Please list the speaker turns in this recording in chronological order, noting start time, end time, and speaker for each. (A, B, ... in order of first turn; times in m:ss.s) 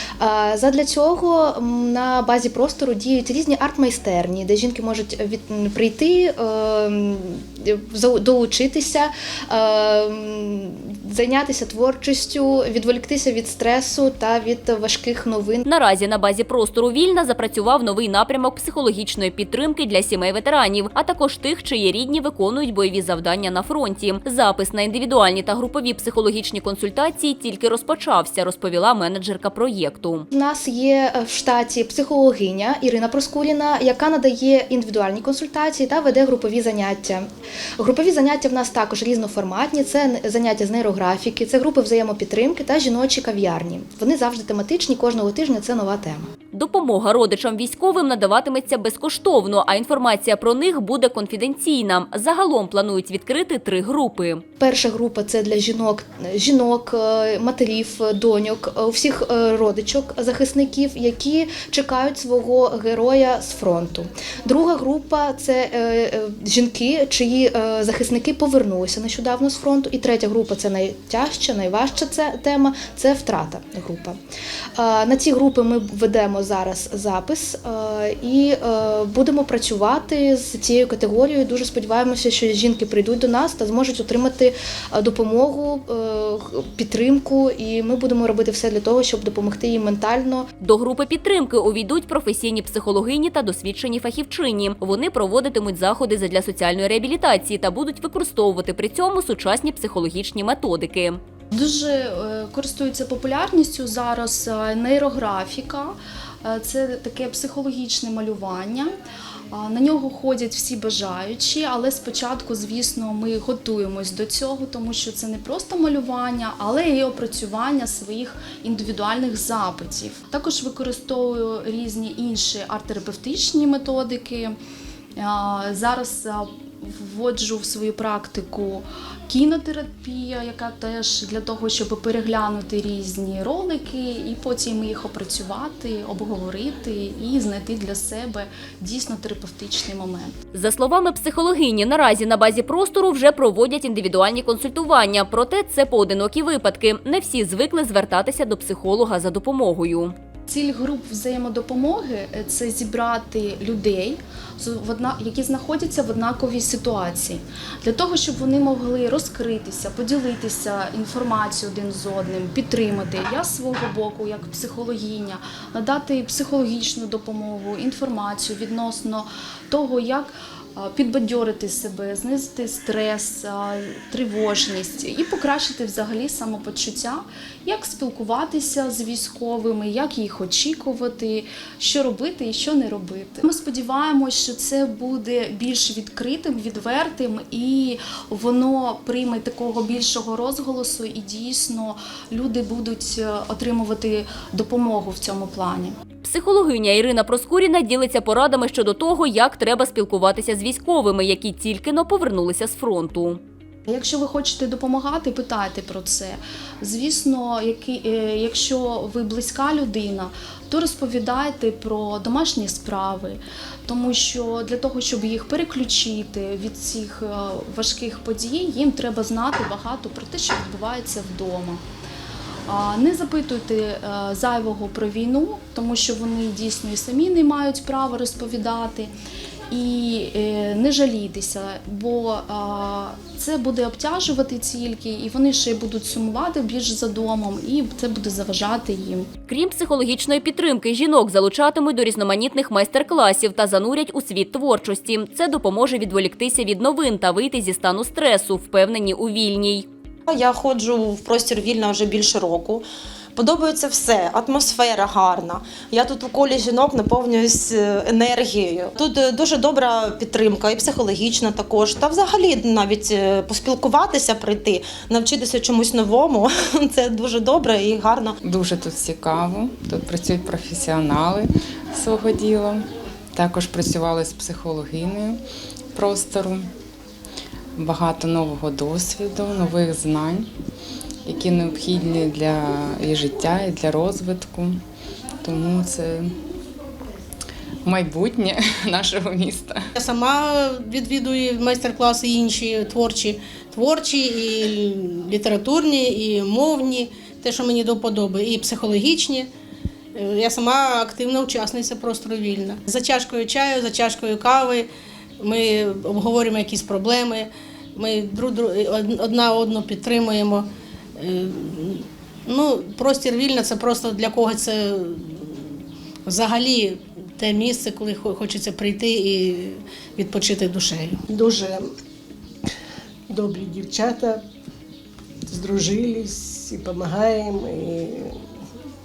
0:00.2-0:15.6 A
0:15.6-0:30.2 B
0:30.3-0:37.2 A
0:37.8-0:46.3 A
0:46.5-0:54.4 B
0:54.6-1:14.2 A
1:14.8-1:30.5 A
1:30.6-1:41.2 B
1:41.5-1:48.9 C
1:49.5-2:04.5 C
2:05.2-2:20.4 C
2:20.5-2:30.1 B
2:30.5-3:16.0 C
3:16.2-3:23.4 B
3:23.9-3:41.8 C
3:42.7-3:49.1 C
3:49.7-3:59.3 C
3:59.5-4:09.9 B
4:10.3-4:28.4 D
4:28.4-4:35.4 E
4:35.9-4:36.7 E
4:37.8-4:40.5 E
4:41.2-4:44.8 E
4:45.4-4:46.3 E
4:47.8-4:49.8 E
4:50.0-4:59.5 F
5:00.1-5:04.9 F
5:05.4-5:15.7 F
5:16.2-5:21.2 F
5:21.3-5:21.8 G
5:23.3-5:24.4 G
5:25.5-5:28.3 G